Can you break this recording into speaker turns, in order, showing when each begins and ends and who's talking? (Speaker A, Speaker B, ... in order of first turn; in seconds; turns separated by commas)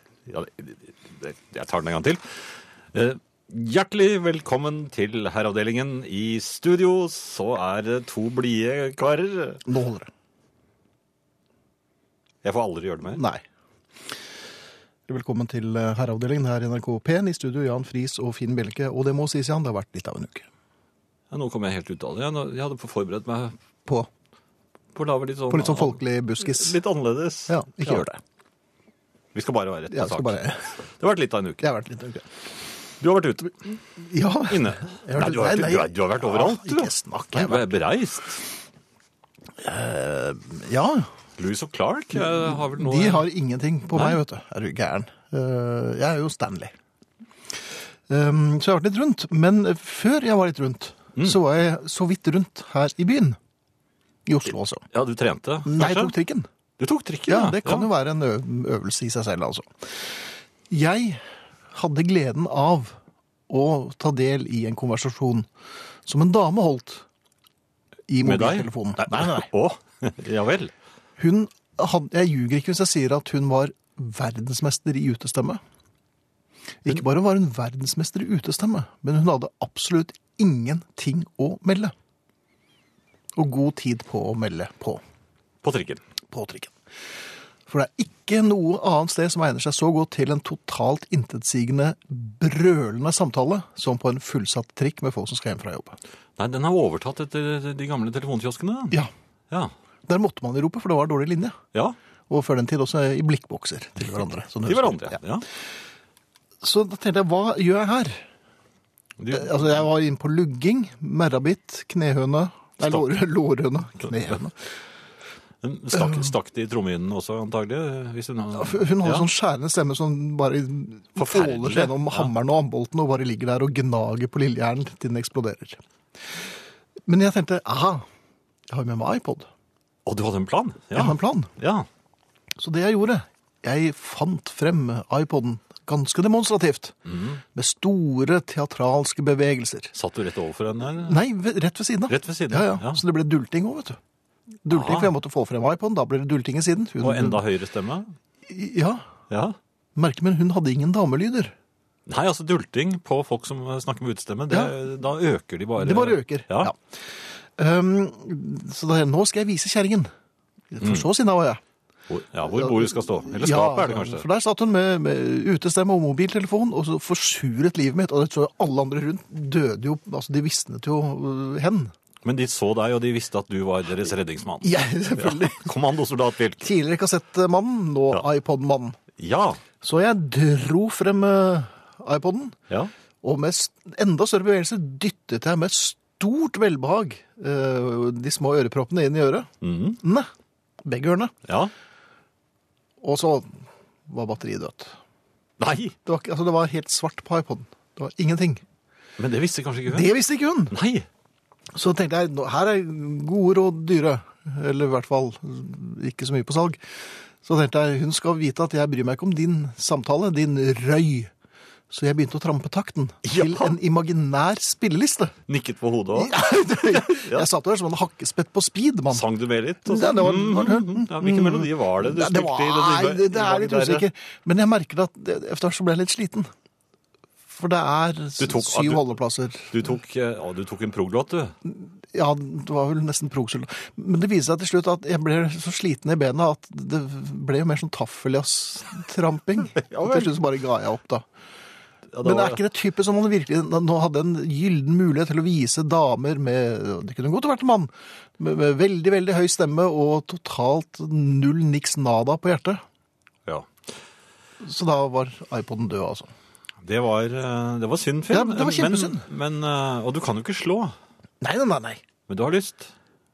Speaker A: 0.3-2.2, Speaker A: 2.9-9.6, Speaker B: 9.7-10.1, Speaker A: 12.4-13.2, Speaker B: 13.1-13.4, Speaker B: 15.1-20.4, Speaker A: 21.3-23.6, Speaker A: 24.9-28.1, Speaker B: 25.5-26.8, Speaker B: 27.5-28.2, Speaker A: 29.3-30.4, Speaker B: 29.9-30.7, Speaker A: 31.0-31.7, Speaker B: 31.6-32.2, Speaker A: 33.0-33.8, Speaker B: 34.0-37.8, Speaker A: 34.5-38.4, Speaker B: 39.6-41.1, Speaker A: 41.4-43.3, Speaker B: 42.1-46.7, Speaker A: 43.9-44.2, Speaker B: 48.1-53.4, Speaker B: 54.3-54.8, Speaker A: 54.9-56.2, Speaker B: 55.6-56.5, Speaker A: 56.8-57.9, Speaker B: 57.3-59.7, Speaker B: 60.7-61.2, Speaker B: 61.7-63.0, Speaker B: 63.5-65.5, Speaker B: 66.1-67.0, Speaker B: 68.1-69.5, Speaker A: 68.2-70.7, Speaker B: 71.2-75.6, Speaker B: 76.8-81.9, Speaker B: 83.4-85.0, Speaker A: 85.6-86.0, Speaker B: 86.3-86.7, Speaker B: 87.7-96.0, Speaker A: 96.4-99.0, Speaker B: 100.1-101.5, Speaker B: 102.3-105.2, Speaker A: 104.7-105.5, Speaker B: 106.6-108.3, Speaker A: 109.2-109.8, Speaker B: 109.3-114.6, Speaker A: 115.6-119.3, Speaker B: 116.0-116.3, Speaker B: 118.5-125.8, Speaker A: 121.2-122.3, Speaker B: 127.1-128.0, Speaker B: 128.7-129.5, Speaker A: 130.1-131.9, Speaker B: 130.9-131.5, Speaker B: 132.6-136.9, Speaker A: 137.1-137.4, Speaker B: 137.6-139.9, Speaker A: 139.9-141.2, Speaker B: 141.0-144.0, Speaker A: 142.1-143.0, Speaker B: 144.7-147.5, Speaker A: 144.7-145.1, Speaker A: 147.0-148.1, Speaker B: 148.4-149.1, Speaker A: 149.3-149.6, Speaker B: 150.0-151.5, Speaker A: 152.1-156.7, Speaker B: 154.5-154.8, Speaker B: 155.8-156.8, Speaker B: 157.6-160.1, Speaker B: 160.7-161.6, Speaker A: 160.8-161.1, Speaker A: 162.1-164.2, Speaker B: 162.5-171.9, Speaker A: 172.2-176.7, Speaker B: 174.6-175.7, Speaker B: 176.6-179.0, Speaker A: 179.2-179.6, Speaker B: 179.8-182.6, Speaker B: 183.2-190.3, Speaker A: 189.6-190.0, Speaker B: 190.8-191.3, Speaker A: 191.5-191.7, Speaker B: 193.0-194.9, Speaker A: 195.6-195.9, Speaker B: 196.1-198.6, Speaker A: 199.2-200.2, Speaker B: 199.9-200.8, Speaker A: 200.7-201.1, Speaker B: 201.7-211.3, Speaker B: 211.9-215.3, Speaker A: 213.2-213.8, Speaker A: 215.5-217.5, Speaker B: 216.2-219.3, Speaker A: 219.1-224.1, Speaker B: 219.9-226.5, Speaker B: 227.5-230.0, Speaker A: 228.4-229.2, Speaker A: 229.7-231.6, Speaker B: 231.7-241.2, Speaker A: 239.8-240.4, Speaker A: 242.1-242.6, Speaker B: 242.2-252.8, Speaker B: 254.6-256.3, Speaker A: 256.8-260.9, Speaker B: 258.3-259.2, Speaker B: 261.4-262.0, Speaker A: 262.3-262.9